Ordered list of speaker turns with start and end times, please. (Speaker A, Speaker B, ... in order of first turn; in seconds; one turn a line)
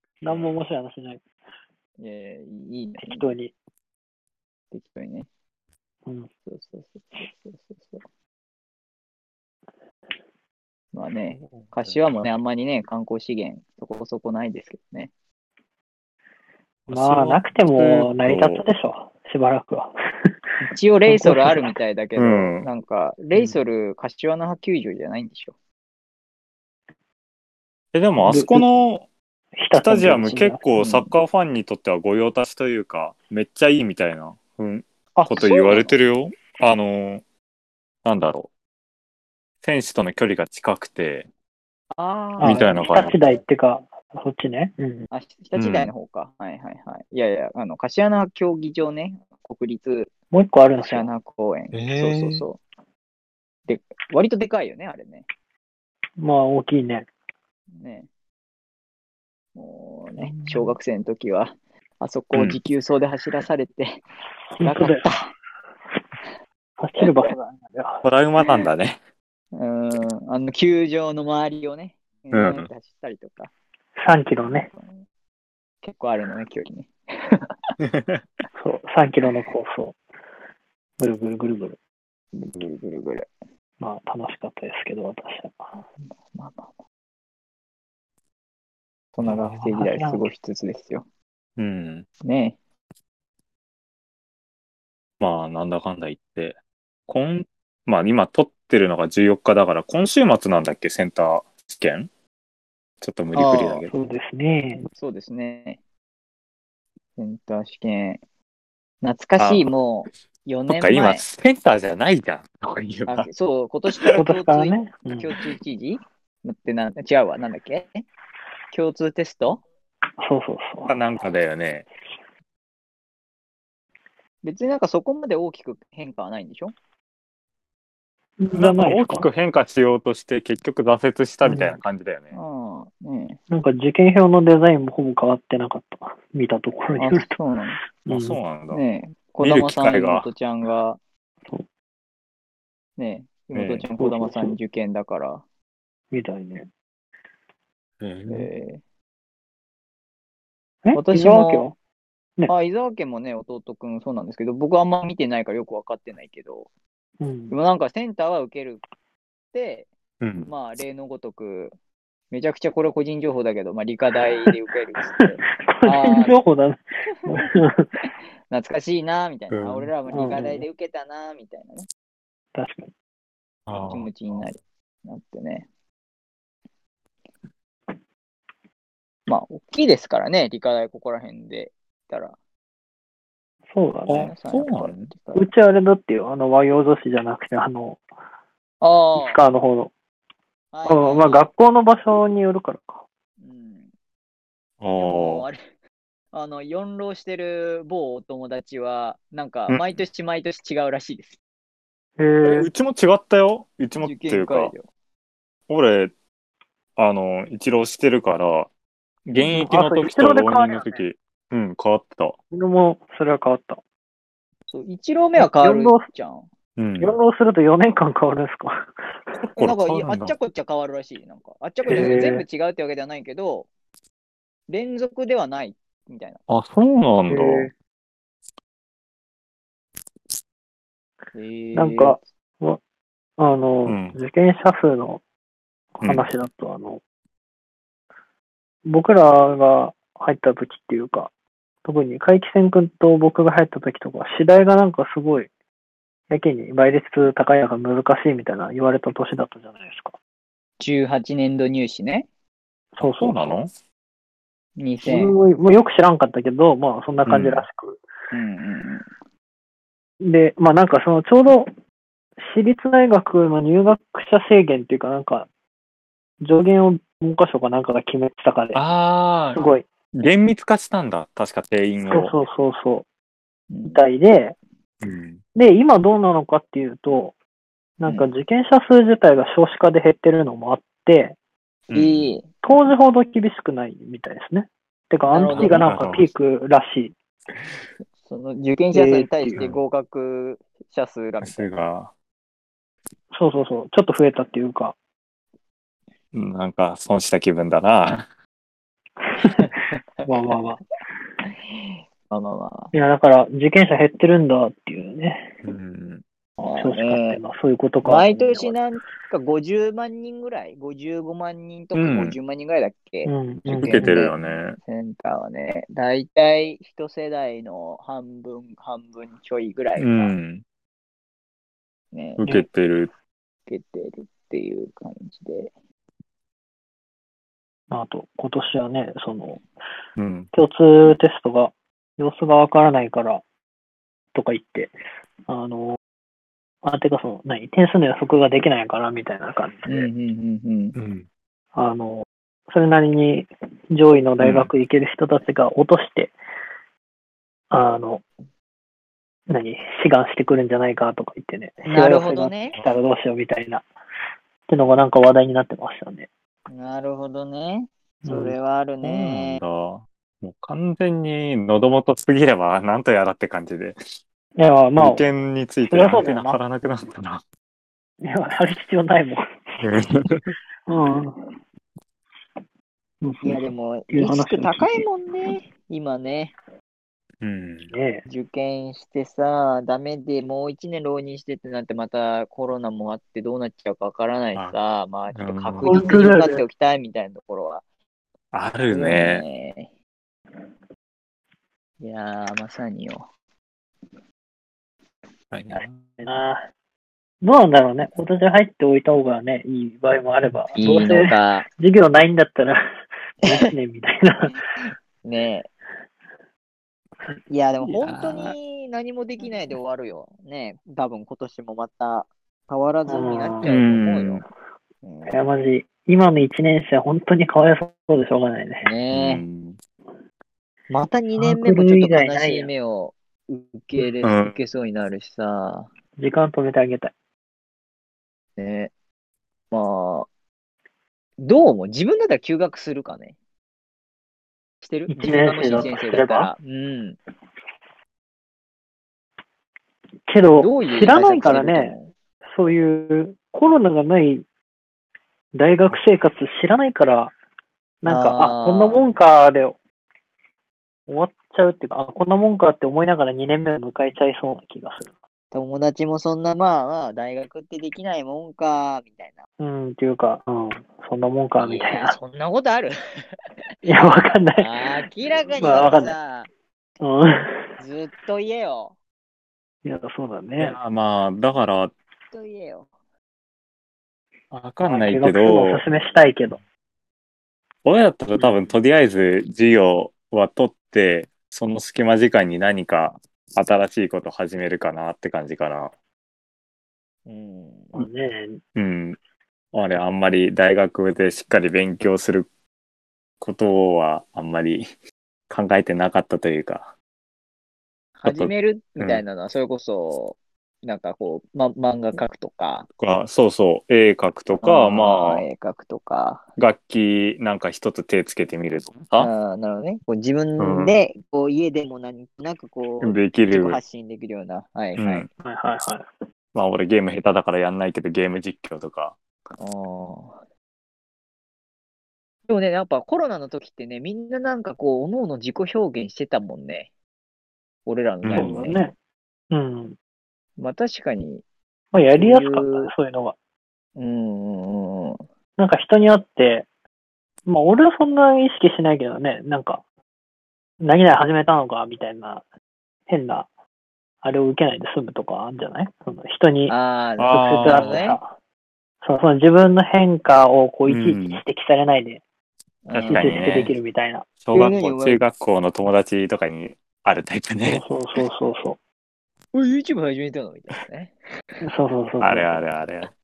Speaker A: 0.2-1.2
Speaker B: 2.0-3.2
Speaker A: 3.0-3.5
Speaker B: 4.7-5.3
Speaker B: 6.5-8.0
Speaker B: 10.9-15.1
Speaker C: 11.4-12.3
Speaker C: 16.9-18.7
Speaker A: 16.9-19.9
Speaker B: 20.7-25.5
Speaker A: 21.1-21.7
Speaker C: 22.2-22.7
Speaker C: 23.3-23.6
Speaker C: 27.9-29.1
Speaker A: 28.2-28.8
Speaker A: 29.6-31.1
Speaker C: 29.8-37.2
Speaker B: 35.2-36.0
Speaker C: 38.0-38.5
Speaker C: 39.6-41.3
Speaker B: 41.9-42.9
Speaker A: 42.4-45.1
Speaker C: 42.4-43.4
Speaker B: 45.1-50.1
Speaker C: 45.5-45.9
Speaker A: 50.3-51.1
Speaker B: 50.8-52.6
Speaker C: 51.7-52.5
Speaker B: 53.7-55.2
Speaker A: 56.2-57.1
Speaker B: 57.7-58.1
Speaker B: 59.5-64.0
Speaker C: 60.3-60.8
Speaker A: 64.5-65.1
Speaker B: 64.6-65.3
Speaker A: 66.8-68.0
Speaker C: 68.0-69.0
Speaker B: 69.5-73.5
Speaker C: 72.3-72.7
Speaker A: 74.0-74.7
Speaker B: 74.4-75.0
Speaker B: 75.8-77.8
Speaker A: 78.5-80.0
Speaker A: 81.0-81.8
Speaker B: 82.3-83.3
Speaker A: 83.8-85.7
Speaker B: 86.3-86.7
Speaker B: 89.1-91.0
Speaker C: 89.2-89.6
Speaker A: 89.2-90.3
Speaker C: 91.6-92.0
Speaker B: 92.2-92.5
Speaker C: 95.2-96.6
Speaker C: 97.1-102.1
Speaker C: 103.0-103.9
Speaker B: 103.3-103.9
Speaker A: 103.9-104.9
Speaker B: 104.9-105.8
Speaker B: 107.2-108.2
Speaker B: 109.0-111.2
Speaker C: 109.4-109.7
Speaker C: 110.7-113.3
Speaker B: 113.1-118.0
Speaker A: 114.1-115.3
Speaker B: 118.7-119.6
Speaker A: 120.2-121.0
Speaker C: 120.8-121.9
Speaker B: 124.4-126.7
Speaker A: 128.4-129.3
Speaker C: 128.5-132.3
Speaker A: 131.4-131.8
Speaker B: 132.3-133.4
Speaker A: 133.5-138.4
Speaker B: 136.9-137.8
Speaker C: 138.1-138.8
Speaker B: 138.7-141.0
Speaker C: 139.4-140.3
Speaker B: 143.0-145.4
Speaker C: 143.5-143.9
Speaker A: 144.0-144.6
Speaker A: 146.1-146.7
Speaker C: 148.0-148.5
Speaker B: 148.3-148.8
Speaker A: 150.8-151.7
Speaker B: 150.9-151.7
Speaker B: 152.5-156.7
Speaker A: 157.2-157.6
Speaker B: 157.5-158.8
Speaker B: 159.5-159.9
Speaker C: 160.2-160.5
Speaker B: 160.5-161.7
Speaker B: 162.3-166.4
Speaker A: 164.2-164.5
Speaker A: 165.2-167.9
Speaker B: 168.5-171.9
Speaker C: 169.5-169.9
Speaker A: 170.1-170.6
Speaker A: 172.5-172.9
Speaker C: 173.7-174.1
Speaker B: 173.8-175.7
Speaker B: 179.3-182.3
Speaker A: 183.7-184.3
Speaker B: 184.1-185.5
Speaker C: 184.1-185.1
Speaker A: 185.3-188.0
Speaker B: 188.8-189.4
Speaker A: 189.2-189.9
Speaker B: 190.7-191.4
Speaker A: 190.8-193.0
Speaker B: 193.4-193.9
Speaker C: 194.8-195.4
Speaker B: 195.0-195.6
Speaker B: 196.3-201.4
Speaker C: 199.7-200.0
Speaker A: 202.2-202.7
Speaker C: 202.4-204.7
Speaker B: 204.0-204.9
Speaker C: 205.7-206.1
Speaker C: 207.0-208.7
Speaker C: 209.2-212.4
Speaker A: 209.4-211.0
Speaker A: 212.5-213.8
Speaker B: 214.7-216.5
Speaker A: 215.4-216.1
Speaker C: 216.8-217.2
Speaker A: 217.0-219.0
Speaker C: 219.5-220.3
Speaker B: 219.6-223.7
Speaker A: 221.9-222.4
Speaker C: 221.9-222.3
Speaker B: 224.7-226.4
Speaker C: 226.5-227.7
Speaker A: 227.3-227.7
Speaker B: 231.3-232.2
Speaker A: 231.7-232.8
Speaker A: 233.4-235.2
Speaker C: 233.8-234.2
Speaker A: 235.9-237.0
Speaker C: 236.0-236.3
Speaker A: 238.8-241.3
Speaker A: 241.8-245.5
Speaker A: 246.3-250.1
Speaker B: 250.8-252.3
Speaker A: 252.9-253.6
Speaker C: 253.0-253.7
Speaker B: 254.8-255.4
Speaker A: 255.0-258.0
Speaker C: 257.2-257.7
Speaker B: 258.3-259.1
Speaker A: 260.2-261.7
Speaker A: 262.4-265.5
Speaker A: 266.4-268.8
Speaker C: 268.7-272.4
Speaker A: 269.5-269.9
Speaker A: 272.1-273.0
Speaker B: 273.7-274.0
Speaker A: 273.9-274.6
Speaker C: 275.0-275.4
Speaker A: 275.5-277.3
Speaker A: 278.0-281.4
Speaker B: 278.0-278.3
Speaker C: 281.9-282.4
Speaker B: 281.9-282.5
Speaker A: 282.6-287.1
Speaker B: 285.3-285.9
Speaker C: 285.4-286.3
Speaker B: 288.2-291.7
Speaker A: 288.9-289.7
Speaker C: 289.5-289.8
Speaker C: 291.4-292.1
Speaker A: 293.3-294.9
Speaker C: 296.3-298.3
Speaker A: 299.2-299.7
Speaker B: 299.4-300.6
Speaker A: 300.2-300.8
Speaker B: 301.7-302.9
Speaker A: 302.9-305.5
Speaker C: 305.6-306.2
Speaker B: 306.6-307.4
Speaker A: 306.7-308.8
Speaker B: 308.0-320.3
Speaker C: 311.9-312.4
Speaker A: 313.2-314.2
Speaker C: 313.8-314.8
Speaker C: 320.0-320.6
Speaker B: 322.1-322.4
Speaker C: 322.4-323.1
Speaker B: 323.7-325.7
Speaker A: 327.9-329.6
Speaker C: 330.2-330.5
Speaker A: 330.5-333.4
Speaker A: 334.3-334.9
Speaker A: 335.5-336.0
Speaker A: 336.8-340.1
Speaker B: 339.9-340.9
Speaker C: 340.9-341.3
Speaker A: 341.7-346.3
Speaker C: 344.4-344.7
Speaker A: 347.7-348.2
Speaker A: 349.5-353.9
Speaker B: 351.8-352.8
Speaker A: 354.7-356.3
Speaker B: 356.7-359.6
Speaker A: 358.2-358.6
Speaker C: 359.0-364.0
Speaker A: 364.6-365.2
Speaker C: 365.0-367.4
Speaker A: 365.9-366.6
Speaker A: 368.2-369.4
Speaker C: 369.8-370.6
Speaker A: 370.9-371.4
Speaker A: 373.2-375.1
Speaker B: 373.4-376.5
Speaker C: 377.4-377.9
Speaker A: 377.9-378.2
Speaker B: 378.2-387.8
Speaker C: 385.3-386.1
Speaker A: 385.8-386.6
Speaker C: 388.5-389.4
Speaker B: 388.9-389.9
Speaker B: 392.0-393.3
Speaker C: 395.5-395.9
Speaker A: 395.7-396.6
Speaker A: 397.4-402.8
Speaker B: 400.8-401.7
Speaker A: 403.4-404.5
Speaker B: 404.5-405.7
Speaker B: 407.5-414.4
Speaker C: 407.8-408.5
Speaker A: 413.1-413.6
Speaker C: 413.6-414.4
Speaker B: 415.0-415.4
Speaker A: 415.3-418.9
Speaker B: 418.8-419.4
Speaker C: 419.1-419.8
Speaker B: 420.9-425.9
Speaker A: 421.3-422.7
Speaker C: 424.2-424.5
Speaker A: 426.2-427.1
Speaker B: 428.6-428.9
Speaker B: 429.7-430.3
Speaker B: 431.4-433.3
Speaker B: 434.8-437.2
Speaker A: 435.1-436.5
Speaker A: 440.3-441.9
Speaker B: 440.5-442.1
Speaker A: 442.5-444.4
Speaker A: 445.5-447.3
Speaker A: 448.0-449.8
Speaker B: 448.0-449.0
Speaker A: 451.1-455.1
Speaker B: 455.5-459.4
Speaker A: 459.6-462.2
Speaker B: 461.6-462.9
Speaker A: 463.8-464.7
Speaker B: 464.0-466.5
Speaker A: 465.6-466.1
Speaker A: 467.0-467.7
Speaker B: 467.8-468.9
Speaker A: 469.8-470.8
Speaker C: 470.6-471.9
Speaker B: 472.3-472.9
Speaker C: 474.5-475.8
Speaker A: 474.8-476.6
Speaker C: 477.8-485.9
Speaker B: 487.2-487.9
Speaker A: 487.9-488.6
Speaker C: 488.7-489.2
Speaker C: 489.7-492.5
Speaker C: 493.4-494.9
Speaker C: 495.5-496.9
Speaker B: 498.2-502.9
Speaker C: 498.2-499.2
Speaker C: 503.0-505.4
Speaker B: 504.6-506.5
Speaker C: 506.6-509.3
Speaker B: 509.2-515.3
Speaker C: 510.6-510.9
Speaker C: 513.0-513.8
Speaker C: 515.0-515.3
Speaker A: 515.4-516.0
Speaker C: 516.5-519.2
Speaker B: 519.6-520.4
Speaker B: 522.5-526.9
Speaker B: 527.9-528.9
Speaker C: 528.2-528.8
Speaker A: 528.3-528.9
Speaker A: 529.5-530.0
Speaker B: 530.6-531.4
Speaker A: 531.9-533.3
Speaker B: 532.1-532.9
Speaker B: 534.0-535.2
Speaker A: 535.6-536.6
Speaker A: 537.5-539.8
Speaker A: 540.8-542.4
Speaker A: 543.1-543.5
Speaker A: 544.2-546.7
Speaker B: 546.7-548.2
Speaker C: 547.2-548.0
Speaker A: 547.3-548.3
Speaker A: 549.0-552.2
Speaker C: 550.9-551.4
Speaker B: 552.8-553.7
Speaker C: 552.9-553.7
Speaker A: 553.0-554.2
Speaker C: 554.4-557.8
Speaker B: 554.5-555.2
Speaker A: 557.6-558.8
Speaker B: 559.5-561.1
Speaker A: 561.6-562.7
Speaker C: 562.2-563.1